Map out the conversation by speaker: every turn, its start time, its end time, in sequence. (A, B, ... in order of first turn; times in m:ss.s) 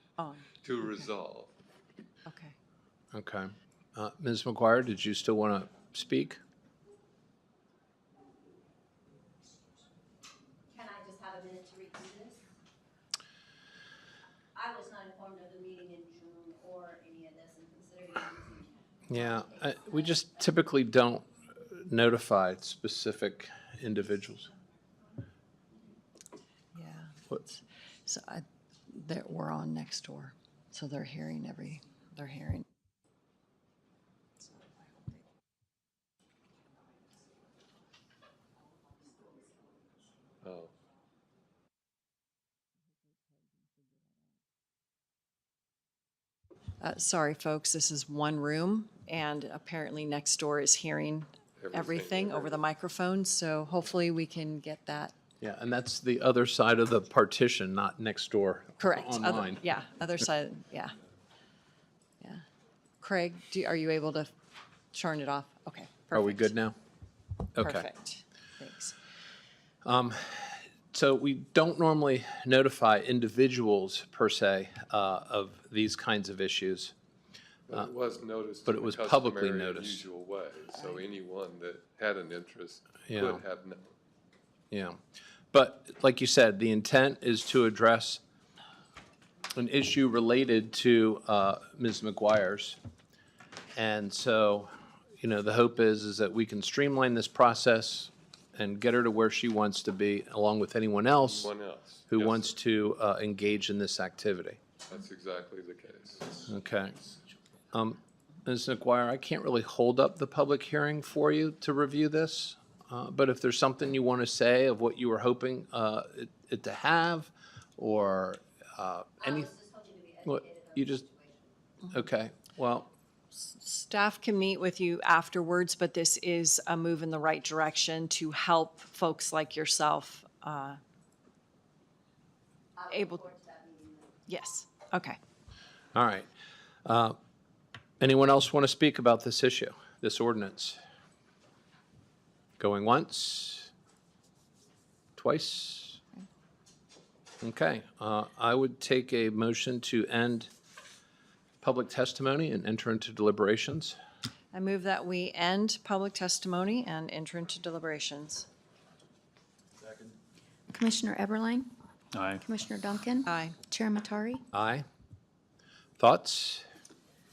0:00.2-0:01.0 A
0:00.5-0:01.5 B
0:02.2-0:02.5 A
0:03.1-0:06.4 C
0:10.7-0:12.4 D
0:14.5-0:19.4 D
0:19.1-0:24.5 C
0:26.7-0:32.6 A
0:34.4-0:35.2 A
0:40.4-0:40.7 B
0:46.8-0:55.1 A
0:51.6-0:52.6 B
0:55.4-0:59.6 C
0:58.8-1:00.9 A
1:03.0-1:04.3 A
1:04.9-1:06.6 A
1:06.1-1:06.8 C
1:07.5-1:07.9 C
1:07.6-1:09.0 A
1:09.8-1:16.9 C
1:17.7-1:23.9 B
1:18.6-1:20.0 C
1:20.7-1:21.1 A
1:23.1-1:23.4 C
1:24.7-1:25.0 C
1:25.5-1:28.2 C
1:29.5-1:32.8 C
1:33.7-1:41.5 C
1:41.2-1:42.5 B
1:42.1-1:44.6 C
1:44.9-1:46.5 B
1:46.5-1:47.0 C
1:47.7-1:59.5 C
1:59.2-2:01.4 D
2:00.2-2:01.0 C
2:01.9-2:02.9 C
2:03.4-2:10.8 A
2:12.8-2:14.0 D
2:12.9-2:13.3 A
2:14.3-2:15.2 A
2:15.9-2:16.3 C
2:16.8-2:17.2 C
2:18.0-2:20.8 C
2:22.6-2:23.7 C
2:25.2-2:26.0 C
2:27.4-2:30.5 C
2:31.6-2:34.0 C
2:34.5-2:38.5 A
2:40.7-2:41.7 E
2:42.4-2:44.4 E
2:43.2-2:43.6 A
2:44.5-2:44.8 C
2:46.0-2:46.6 C